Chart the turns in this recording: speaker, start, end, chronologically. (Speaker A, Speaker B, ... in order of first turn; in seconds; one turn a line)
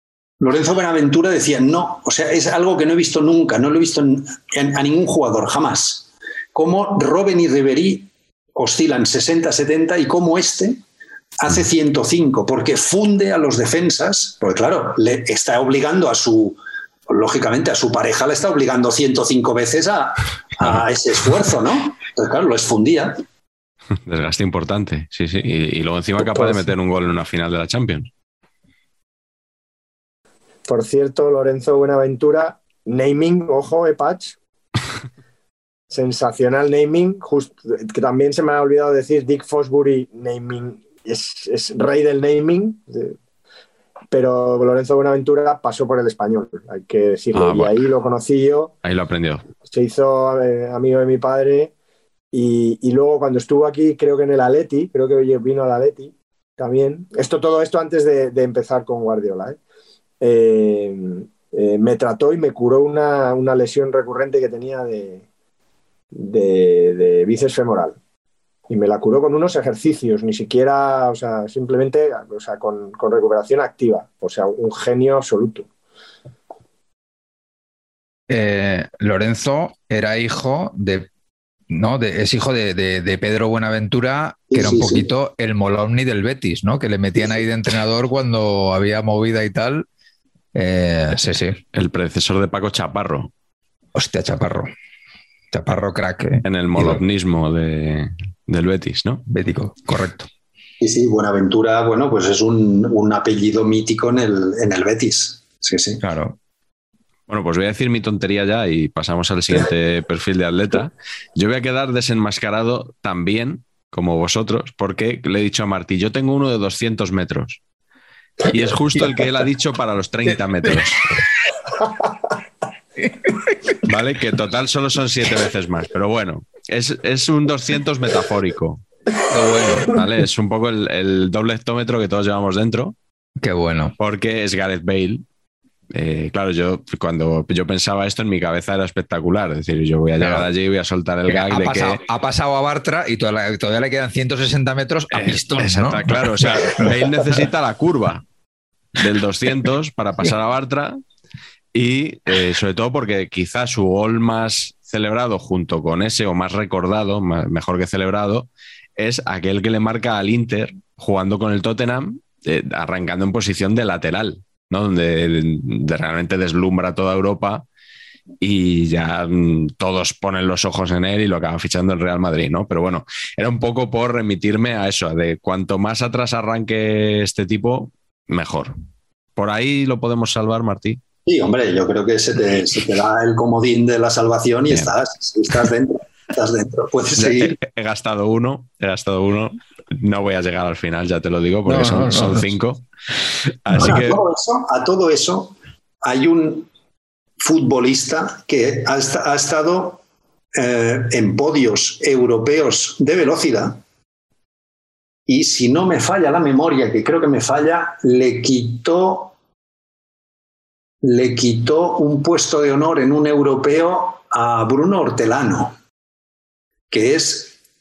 Speaker A: 0.4-10.8
Speaker A: 11.4-23.2
Speaker B: 24.0-28.1
Speaker C: 30.6-34.4
Speaker C: 35.9-43.1
Speaker C: 44.1-48.7
Speaker B: 47.3-47.7
Speaker B: 48.8-49.4
Speaker C: 49.7-51.7
Speaker C: 52.3-59.6
Speaker C: 60.2-65.2
Speaker C: 66.1-68.0
Speaker C: 68.7-75.7
Speaker D: 78.3-81.1
Speaker D: 81.7-89.9
Speaker A: 84.5-85.1
Speaker D: 90.5-91.6
Speaker B: 91.7-93.3
Speaker D: 93.9-94.7
Speaker D: 95.5-97.0
Speaker B: 96.4-99.2
Speaker D: 99.3-100.3
Speaker A: 100.8-106.0
Speaker D: 106.0-106.4
Speaker B: 107.3-117.6
Speaker B: 118.4-121.1
Speaker B: 123.8-128.8
Speaker D: 129.3-129.9
Speaker B: 129.8-132.9
Speaker D: 133.4-133.9
Speaker B: 134.0-135.2
Speaker B: 135.9-142.0
Speaker D: 140.2-140.5
Speaker D: 141.3-147.1
Speaker B: 145.1-148.2
Speaker B: 148.9-151.0
Speaker B: 151.7-167.6
Speaker B: 168.4-178.7
Speaker B: 179.4-181.0
Speaker A: 181.2-187.6
Speaker B: 187.2-192.8
Speaker D: 191.7-192.5
Speaker B: 193.4-194.2
Speaker A: 193.7-196.7
Speaker A: 197.4-200.0
Speaker A: 200.6-203.8
Speaker A: 205.3-209.3
Speaker A: 211.0-215.7
Speaker A: 216.9-217.6